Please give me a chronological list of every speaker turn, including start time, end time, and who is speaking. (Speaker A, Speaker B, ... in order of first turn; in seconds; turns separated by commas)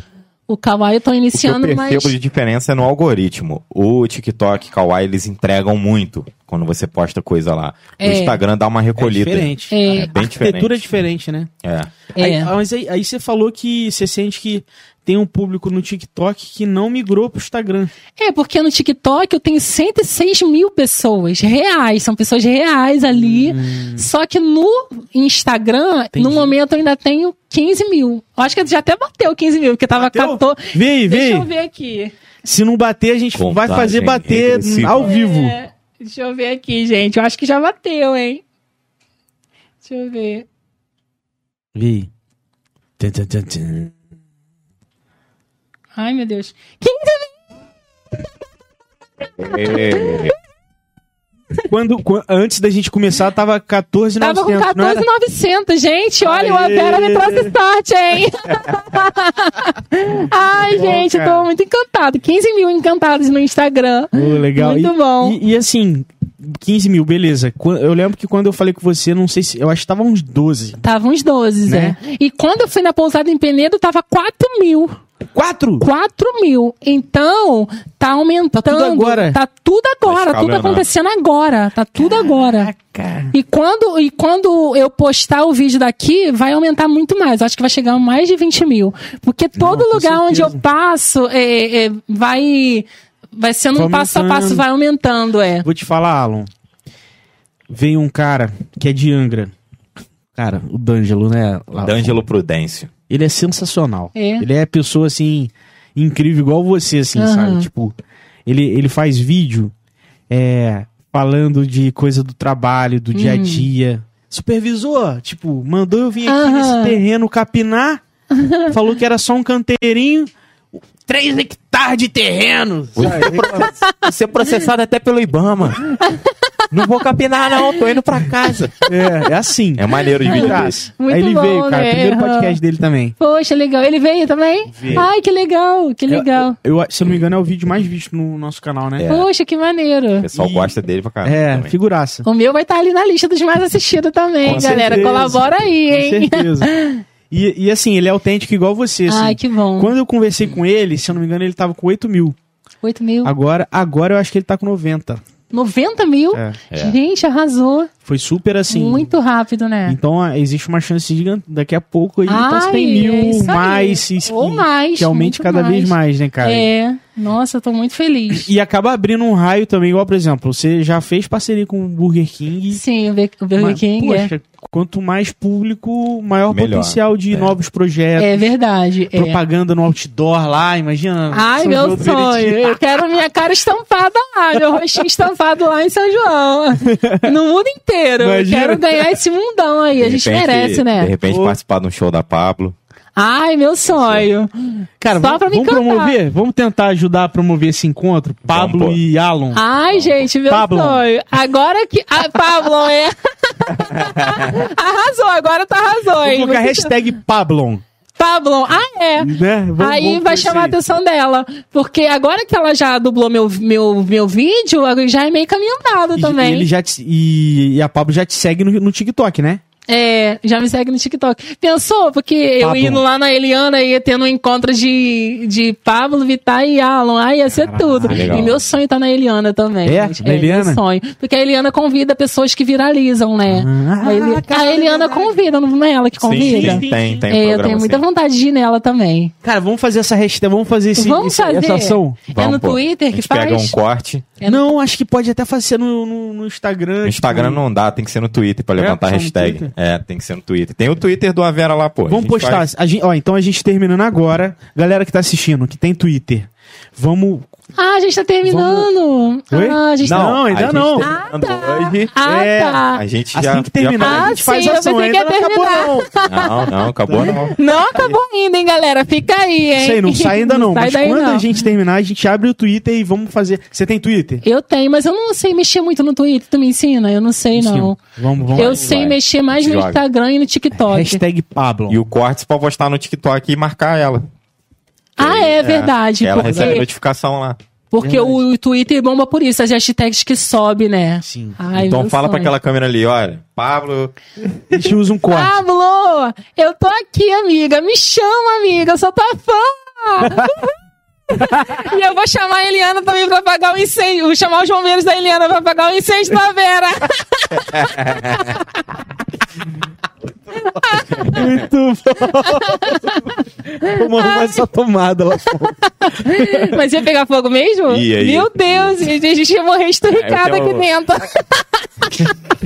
Speaker A: 0.5-2.1, Speaker B: 1.3-10.8, Speaker A: 8.0-8.4, Speaker C: 9.0-11.5, Speaker A: 9.7-10.1, Speaker B: 11.6-11.9, Speaker A: 12.2-12.5, Speaker C: 12.2-17.9, Speaker A: 18.2-32.1, Speaker C: 23.1-24.1, Speaker C: 26.1-26.6, Speaker C: 29.9-31.5, Speaker C: 32.4-35.6, Speaker B: 33.4-35.1, Speaker A: 35.0-38.4, Speaker A: 39.8-40.5, Speaker C: 41.7-42.1, Speaker C: 43.0-43.9, Speaker A: 46.0-47.4, Speaker B: 49.4-50.3, Speaker A: 49.5-50.3, Speaker C: 51.7-55.1, Speaker A: 54.2-65.4, Speaker C: 56.2-57.5, Speaker C: 60.4-61.5, Speaker C: 64.1-70.8, Speaker A: 70.8-75.0, Speaker C: 71.7-72.0, Speaker C: 75.3-75.8, Speaker A: 75.8-82.7, Speaker C: 78.5-79.4, Speaker B: 80.0-80.9, Speaker C: 82.0-83.3, Speaker A: 83.3-95.7, Speaker C: 89.6-90.6, Speaker C: 93.7-94.7, Speaker C: 95.6-96.5, Speaker C: 97.7-99.5, Speaker C: 100.3-102.2, Speaker B: 101.8-102.9, Speaker C: 103.1-108.0, Speaker A: 104.2-104.5, Speaker A: 107.2-107.7, Speaker C: 108.5-109.7, Speaker C: 110.3-118.0, Speaker A: 113.1-113.7, Speaker A: 116.3-117.0, Speaker A: 118.3-118.7, Speaker C: 118.7-123.7, Speaker B: 123.0-125.9, Speaker A: 126.0-126.3, Speaker B: 126.7-128.8, Speaker C: 128.9-133.2, Speaker B: 129.8-130.8, Speaker A: 130.2-132.6, Speaker A: 133.2-136.6, Speaker C: 134.7-135.1, Speaker C: 136.1-139.1, Speaker B: 139.0-139.3, Speaker A: 139.1-140.3, Speaker B: 140.2-141.7, Speaker C: 140.3-142.3, Speaker A: 142.2-147.0, Speaker C: 144.4-146.7, Speaker B: 144.4-145.5, Speaker C: 147.3-152.4, Speaker A: 149.1-149.9, Speaker A: 152.8-153.3, Speaker C: 153.2-155.2, Speaker A: 155.5-157.9, Speaker C: 156.3-156.6, Speaker B: 156.7-157.0, Speaker C: 158.0-159.1, Speaker A: 158.7-160.0, Speaker C: 159.9-166.7, Speaker A: 162.3-168.5, Speaker C: 168.3-172.8, Speaker A: 172.7-174.3, Speaker C: 173.6-178.5, Speaker B: 176.5-177.5, Speaker A: 178.2-179.4, Speaker C: 179.1-183.0, Speaker A: 181.3-191.1, Speaker C: 184.5-185.0, Speaker C: 186.8-187.3, Speaker C: 188.2-189.2, Speaker B: 190.0-192.8, Speaker C: 191.3-191.6, Speaker A: 193.2-196.2, Speaker B: 193.9-194.3, Speaker C: 195.0-199.6, Speaker B: 198.5-199.0, Speaker A: 199.5-206.9, Speaker B: 199.9-200.2, Speaker C: 200.5-201.1, Speaker B: 203.8-204.5, Speaker C: 206.2-207.8, Speaker A: 208.2-216.7, Speaker C: 209.2-210.8, Speaker C: 216.2-219.6, Speaker A: 219.9-239.3, Speaker C: 222.6-223.1, Speaker C: 227.5-228.6, Speaker B: 228.1-228.5, Speaker C: 229.8-230.8, Speaker C: 233.5-235.4, Speaker B: 236.2-238.0, Speaker C: 236.4-237.3, Speaker C: 239.4-242.2, Speaker A: 240.9-243.8, Speaker B: 242.3-244.3, Speaker A: 244.4-244.7, Speaker C: 244.4-247.6, Speaker B: 247.0-252.7, Speaker C: 248.8-249.7, Speaker C: 252.1-257.5, Speaker A: 257.8-260.4, Speaker C: 258.4-258.9, Speaker C: 259.5-261.1, Speaker B: 260.1-262.1, Speaker A: 261.0-263.0, Speaker C: 262.2-266.1, Speaker B: 262.9-264.3, Speaker A: 264.0-271.5, Speaker B: 266.2-268.1, Speaker C: 267.1-267.6, Speaker C: 269.8-274.4, Speaker A: 274.4-278.0, Speaker C: 277.5-279.1, Speaker B: 278.5-280.0, Speaker A: 278.6-281.2, Speaker C: 280.8-282.0, Speaker B: 281.9-284.2, Speaker A: 285.2-286.9, Speaker B: 285.2-287.6, Speaker C: 286.4-286.8, Speaker A: 287.9-292.5, Speaker C: 288.0-288.4, Speaker C: 291.2-291.6, Speaker B: 291.8-294.1, Speaker C: 294.7-295.6, Speaker A: 295.3-300.7, Speaker C: 300.2-300.5, Speaker A: 301.3-308.7, Speaker C: 301.4-301.7, Speaker B: 307.7-308.5, Speaker A: 310.5-311.4, Speaker B: 311.2-311.5, Speaker C: 311.3-316.8, Speaker A: 312.4-314.6, Speaker A: 316.0-322.3, Speaker B: 317.9-319.1, Speaker B: 320.1-320.9